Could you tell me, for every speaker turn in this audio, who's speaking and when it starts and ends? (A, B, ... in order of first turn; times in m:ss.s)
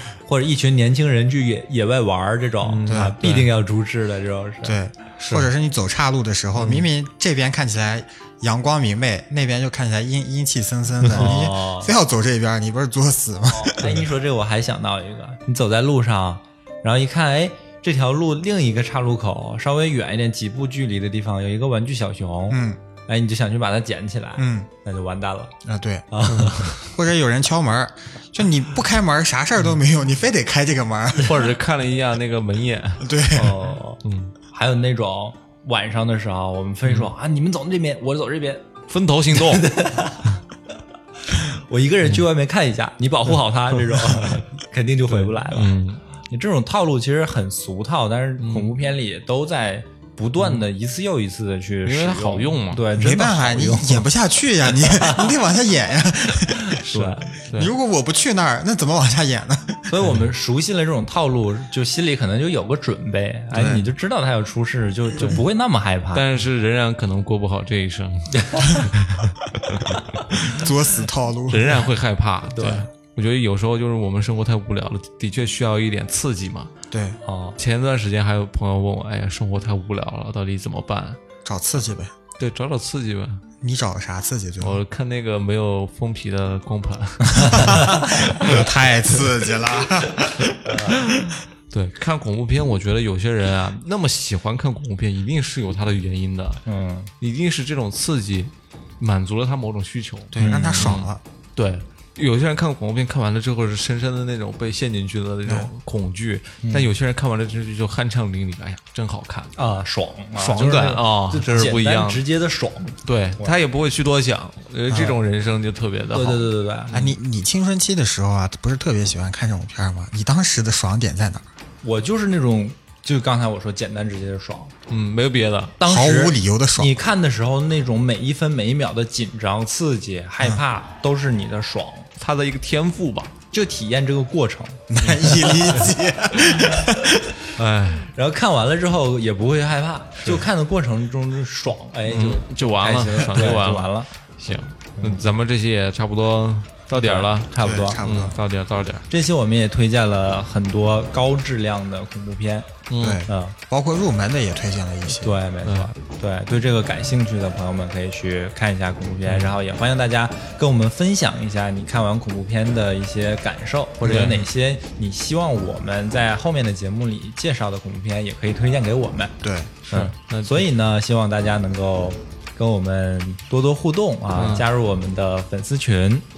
0:00.2-0:04.8 A
0:02.6-0:03.5 B
0:02.9-0:03.2 C
0:04.6-0:14.1 C
0:11.1-0:11.9 A
0:13.5-0:25.5 A
0:22.5-0:22.8 C
0:24.4-0:24.7 C
0:25.6-0:26.1 C
0:26.1-0:26.8 A
0:26.3-0:26.8 B
0:26.8-0:31.5 C
0:31.2-0:33.1 B
0:33.0-0:33.6 C
0:33.3-0:38.6 A
0:34.0-0:34.3 B
0:36.8-0:37.1 B
0:38.9-0:39.7 B
0:39.3-0:40.4 A
0:41.3-0:54.1 A
0:44.0-0:44.4 B
0:45.1-0:46.0 B
0:48.4-0:48.7 B
0:51.8-0:52.8 B
0:52.9-0:56.8 C
0:54.9-0:55.3 A
0:56.8-0:57.7 B
0:56.9-0:57.3 A
0:57.5-0:59.9 C
0:59.9-1:06.2 A
1:03.5-1:03.9 C
1:06.1-1:10.5 B
1:08.4-1:08.7 A
1:10.4-1:11.8 C
1:11.5-1:16.7 B
1:12.6-1:12.8 A
1:16.9-1:17.2 C
1:17.2-1:17.6 A
1:17.6-1:21.2 B
1:21.4-1:22.1 C
1:22.4-1:23.4 B
1:23.6-1:24.8 C
1:24.6-1:29.2 B
1:27.5-1:30.6 C
1:30.4-1:36.6 B
1:30.6-1:31.0 A
1:36.6-1:37.1 A
1:37.2-1:49.5 B
1:40.3-1:41.2 C
1:40.4-1:41.0 A
1:45.4-1:45.7 C
1:46.6-1:46.9 A
1:49.6-1:53.5 A
1:50.4-1:52.2 B
1:53.0-1:57.1 B
1:54.9-1:55.2 C
1:56.1-1:57.0 A
1:56.9-2:01.4 C
2:01.8-2:04.7 A
2:04.9-2:05.7 B
2:05.8-2:12.1 A
2:05.8-2:06.9 C
2:12.2-2:13.3 B
2:13.5-2:15.9 A
2:14.9-2:17.2 C
2:15.0-2:15.8 B
2:17.5-2:18.1 B
2:18.1-2:24.1 A
2:22.1-2:29.0 B
2:25.0-2:25.2 A
2:26.9-2:28.0 A
2:27.6-2:28.4 C
2:29.1-2:32.7 A
2:32.9-2:33.2 B
2:33.0-2:35.4 C
2:33.3-2:33.6 A
2:35.1-2:49.3 A
2:35.6-2:35.9 B
2:39.3-2:39.5 B
2:44.0-2:44.4 C
2:44.0-2:44.4 B
2:49.4-2:49.8 C
2:49.8-2:50.7 B
2:49.9-2:56.2 A
2:54.4-2:54.6 B